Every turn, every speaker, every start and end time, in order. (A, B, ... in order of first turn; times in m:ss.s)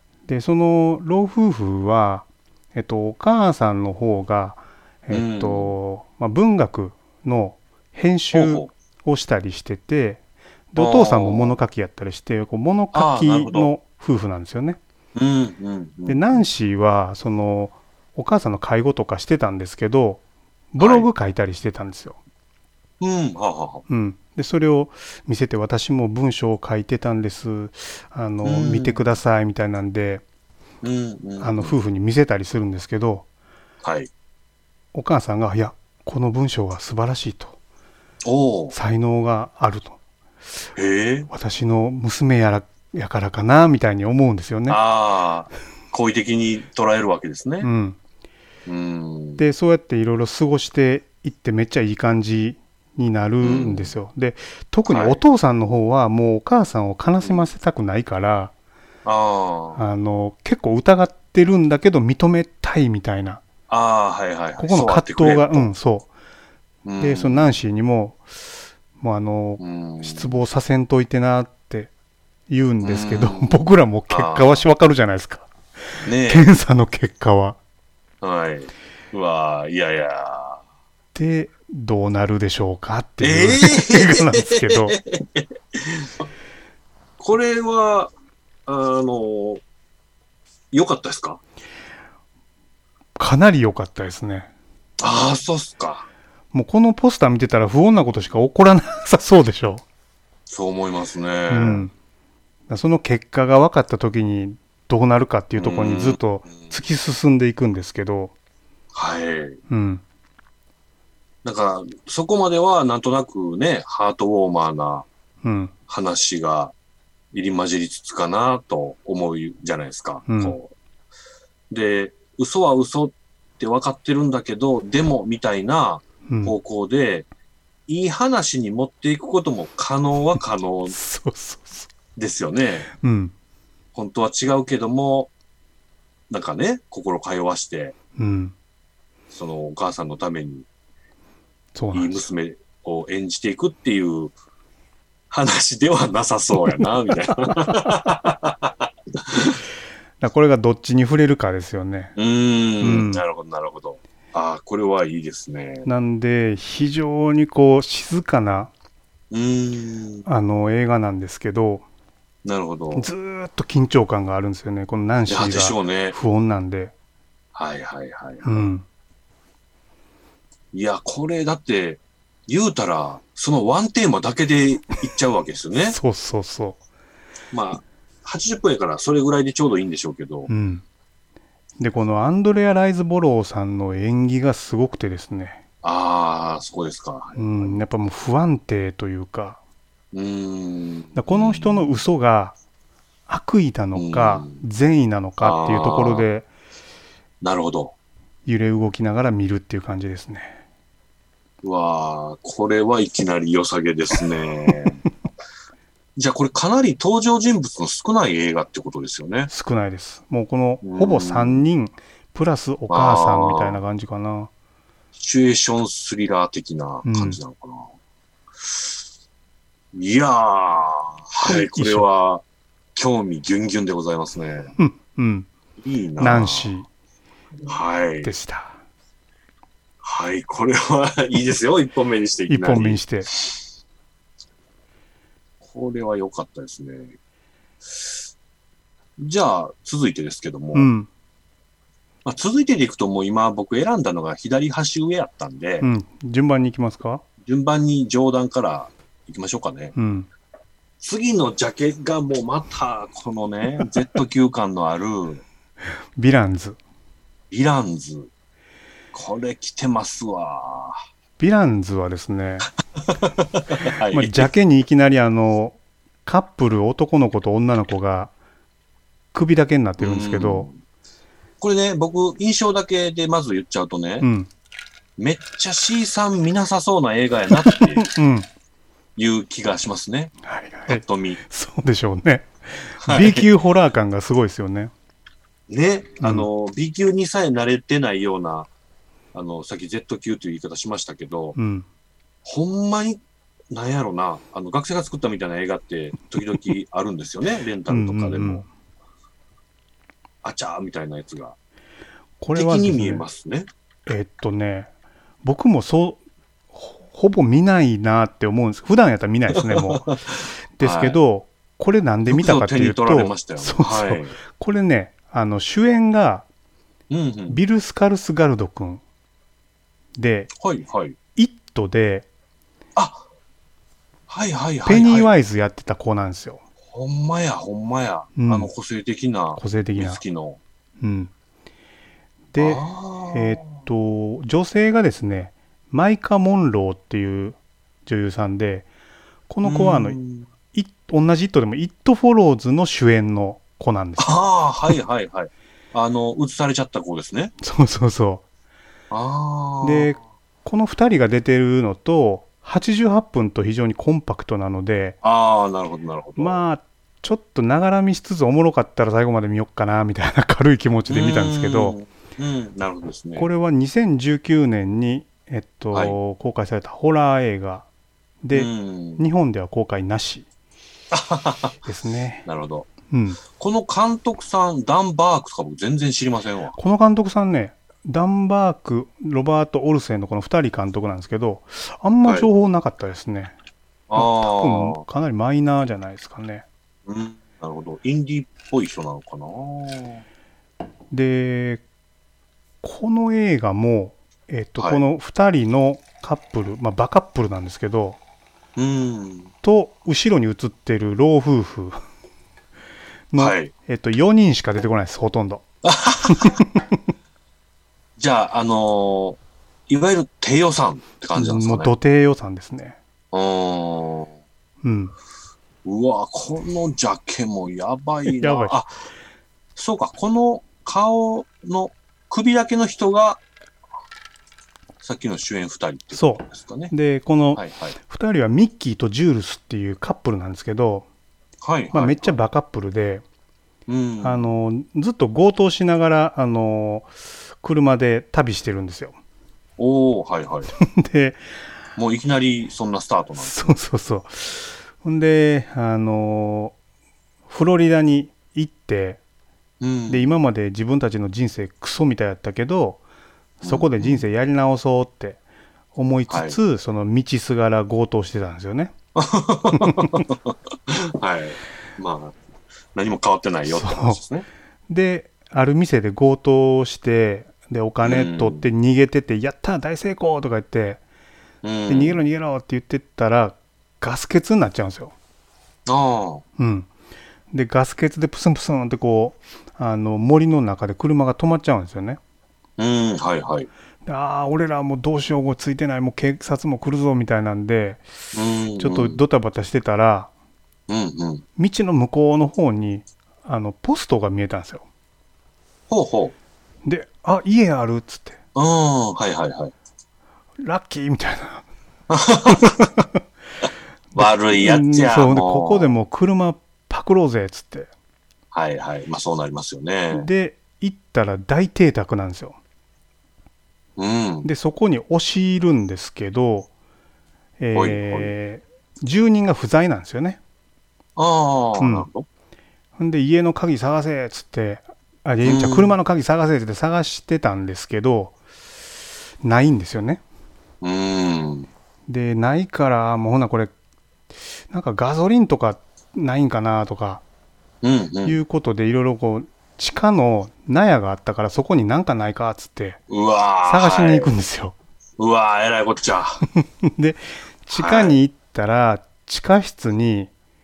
0:00.3-0:10.2 A
0:05.1-0:05.7 B
0:08.3-0:08.7 B
0:10.7-0:14.8 A
0:10.8-0:11.6 B
0:12.9-0:13.7 B
0:15.1-0:16.4 B
0:16.1-0:20.2 A
0:20.7-0:22.2 A
0:20.8-0:21.1 B
0:23.0-0:23.8 B
0:23.9-0:30.2 A
0:28.4-0:29.0 B
0:30.8-0:31.8 B
0:31.4-0:33.2 A
0:33.8-0:34.1 B
0:34.9-0:37.5 A
0:38.2-0:38.7 B
0:38.7-0:40.0 A
0:40.8-0:41.3 B
0:41.3-0:44.8 A
0:44.7-0:47.7 B
0:47.6-0:48.0 A
0:48.6-0:49.4 B
0:49.4-0:58.5 A
0:53.4-0:54.0 B
0:54.9-0:55.2 B
0:57.2-0:57.5 B
0:59.0-0:59.8 B
0:59.8-1:03.4 A
1:03.7-1:05.7 B
1:04.6-1:06.1 A
1:06.8-1:07.5 B
1:07.0-1:08.2 A
1:09.0-1:11.9 A
1:09.6-1:10.4 B
1:12.5-1:15.5 A
1:12.8-1:14.6 B
1:16.0-1:16.5 B
1:16.2-1:17.6 A
1:18.2-1:20.6 B
1:21.1-1:25.0 A
1:23.2-1:26.3 B
1:27.2-1:28.1 B
1:28.6-1:29.6 B
1:30.7-1:31.4 B
1:33.2-1:34.5 A
1:35.0-1:36.1 B
1:36.5-1:39.8 A
1:40.5-1:41.9 B
1:41.5-1:41.9 A
1:42.7-1:48.3 A
1:45.6-1:46.7 B
1:48.9-1:49.6 B
1:49.7-1:50.0 A
1:51.4-1:55.0 B
1:55.4-1:55.7 A
1:55.9-1:56.7 B
1:57.3-2:00.7 B
2:00.3-2:00.6 A
2:01.7-2:07.2 B
2:06.3-2:06.5 A
2:07.9-2:11.0 B
2:10.9-2:11.9 A
2:12.2-2:12.9 B
2:13.0-2:13.3 A
2:13.9-2:15.3 B
2:16.3-2:17.9 B
2:18.2-2:18.5 A
2:19.3-2:20.7 B
2:21.7-2:22.3 A
2:21.9-2:24.3 B
2:25.3-2:29.6 B
2:30.2-2:32.1 A
2:32.2-2:35.9 B
2:32.8-2:33.2 A
2:35.8-2:38.7 A
2:39.3-2:40.2 B
2:40.2-2:41.8 A
2:42.4-2:43.1 B
2:42.9-2:46.9 A
2:45.3-2:46.2 B
2:47.5-2:48.7 B
2:48.4-2:48.8 A
2:50.7-2:56.0 B
2:55.8-2:56.8 A
2:57.5-3:00.5 B
3:00.5-3:00.8 A
3:01.8-3:05.6 A
3:05.8-3:07.8 B
3:07.4-3:09.6 A
3:10.1-3:11.9 B
3:11.1-3:12.6 A
3:13.3-3:16.4 A
3:13.9-3:14.6 B
3:15.4-3:16.3 B
3:17.4-3:17.9 B
3:18.4-3:20.6 A
3:21.6-3:25.0 B
3:26.2-3:29.5 B
3:29.5-3:34.5 A
3:30.8-3:31.6 B
3:32.9-3:33.8 B
3:35.1-3:37.9 B
3:37.0-3:37.4 A
3:38.6-3:39.0 B
3:39.9-3:42.4 B
3:41.4-3:42.1 A
3:43.0-3:44.7 B
3:44.8-3:45.5 A
3:45.8-3:46.7 B
3:46.2-3:46.9 A
3:47.7-3:48.3 B
3:48.2-3:48.8 A
3:50.0-3:53.6 B
3:52.5-3:53.3 A
3:55.6-3:57.1 B
3:57.9-3:58.1 B
3:59.2-4:00.9 B
4:00.7-4:01.1 A
4:02.2-4:05.9 B
4:05.8-4:07.2 A
4:07.4-4:09.9 B
4:10.0-4:10.3 A
4:11.0-4:15.4 B
4:16.2-4:16.8 A
4:17.5-4:18.3 B
4:19.1-4:21.0 B
4:21.4-4:22.7 A
4:23.0-4:24.5 B
4:24.1-4:28.3 A
4:29.3-4:30.7 A
4:30.0-4:30.8 B
4:31.6-4:34.3 B
4:34.2-4:34.5 A
4:35.2-4:38.1 B
4:37.6-4:38.5 A
4:39.2-4:40.3 B
4:40.4-4:44.9 A
4:40.9-4:41.4 B
4:43.0-4:43.5 B
4:45.7-4:48.7 B
4:46.2-4:46.5 A
4:49.3-4:51.6 B
4:51.6-4:51.8 A
4:52.4-4:58.6 B
4:57.9-4:58.7 A
5:00.4-5:01.6 B
5:02.4-5:03.2 A
5:02.5-5:03.7 B
5:04.1-5:04.9 A
5:05.4-5:06.2 A
5:06.7-5:10.1 A
5:09.5-5:11.2 B
5:10.8-5:16.4 A
5:12.2-5:14.4 B
5:17.1-5:17.6 B
5:17.5-5:19.0 A
5:20.2-5:20.5 A
5:20.6-5:21.2 B
5:21.4-5:22.2 A
5:23.0-5:23.2 B
5:24.3-5:25.3 B
5:24.8-5:26.6 A
5:26.9-5:30.6 B
5:28.4-5:28.7 A
5:29.6-5:30.2 A
5:31.0-5:31.3 A
5:32.5-5:38.9 A
5:32.6-5:33.6 B
5:39.5-5:40.2 A
5:39.6-5:40.5 B
5:40.7-5:44.9 A
5:44.2-5:47.5 B
5:47.6-5:48.4 A
5:49.1-5:50.1 B
5:49.8-5:55.2 A
5:55.2-5:56.6 B
5:56.4-6:02.0 A
6:01.1-6:03.5 B
6:03.4-6:07.8 A
6:05.9-6:06.2 B
6:08.4-6:10.4 A
6:08.5-6:09.2 B
6:11.1-6:11.8 B
6:11.8-6:12.4 A
6:12.4-6:12.9 B
6:13.1-6:13.4 A
6:13.4-6:16.8 B
6:16.8-6:23.5 A
6:24.1-6:25.0 B
6:24.1-6:26.6 A
6:27.0-6:30.2 B
6:31.1-6:31.8 A
6:32.8-6:38.2 A
6:34.8-6:35.0 B
6:38.8-6:39.5 B
6:39.6-6:42.0 A
6:43.3-6:45.6 A
6:43.4-6:43.7 B
6:45.8-6:46.6 B
6:46.3-6:46.9 A
6:48.2-6:51.9 B
6:51.3-6:53.0 A
6:53.3-6:54.3 B
6:54.8-6:55.1 A
6:55.8-6:58.9 B
6:58.2-6:58.8 A
6:59.8-7:03.4 B
7:05.0-7:06.9 B
7:06.1-7:11.0 A
7:07.5-7:08.0 B
7:11.6-7:12.4 B
7:11.9-7:13.2 A
7:13.9-7:14.5 B
7:14.2-7:17.1 A
7:17.6-7:19.1 A
7:19.8-7:20.7 B
7:20.8-7:21.4 A
7:22.0-7:23.8 B
7:23.4-7:26.7 A
7:27.5-7:29.2 A
7:29.8-7:30.3 B
7:30.1-7:33.0 A
7:33.6-7:35.4 A
7:33.6-7:34.2 B
7:35.9-7:38.9 A
7:36.3-7:36.6 B
7:39.1-7:42.4 B
7:39.8-7:40.2 A
7:42.9-7:44.5 B
7:43.7-7:44.2 A
7:44.9-7:51.0 A
7:48.0-7:48.6 B
7:51.6-7:52.2 B
7:51.9-7:55.1 A
7:55.8-7:56.4 B
7:56.6-7:56.9 A
7:57.5-8:02.2 A
8:02.8-8:03.7 B
8:04.0-8:08.0 A
8:08.3-8:09.2 B
8:08.8-8:10.3 A
8:10.9-8:11.4 B
8:11.6-8:14.8 A
8:15.9-8:16.3 B
8:16.8-8:18.4 A
8:18.5-8:19.7 B
8:20.6-8:21.6 A
8:22.1-8:22.8 B
8:22.5-8:23.0 A
8:24.1-8:27.9 A
8:24.1-8:25.9 B
8:28.5-8:30.3 B
8:30.1-8:32.6 A
8:34.0-8:34.5 B
8:34.4-8:36.7 A
8:37.6-8:40.4 A
8:37.7-8:38.3 B
8:41.2-8:42.2 B
8:41.8-8:42.1 A
8:43.0-8:48.3 A
8:45.4-8:45.9 B
8:49.4-8:50.2 A
8:50.8-8:51.7 B
8:52.1-8:53.7 A
8:54.7-8:57.2 A
8:57.8-8:58.4 B
8:58.2-9:03.0 A
9:03.1-9:04.3 B
9:03.6-9:04.7 A
9:05.2-9:06.4 B
9:06.6-9:10.3 A
9:07.7-9:08.2 B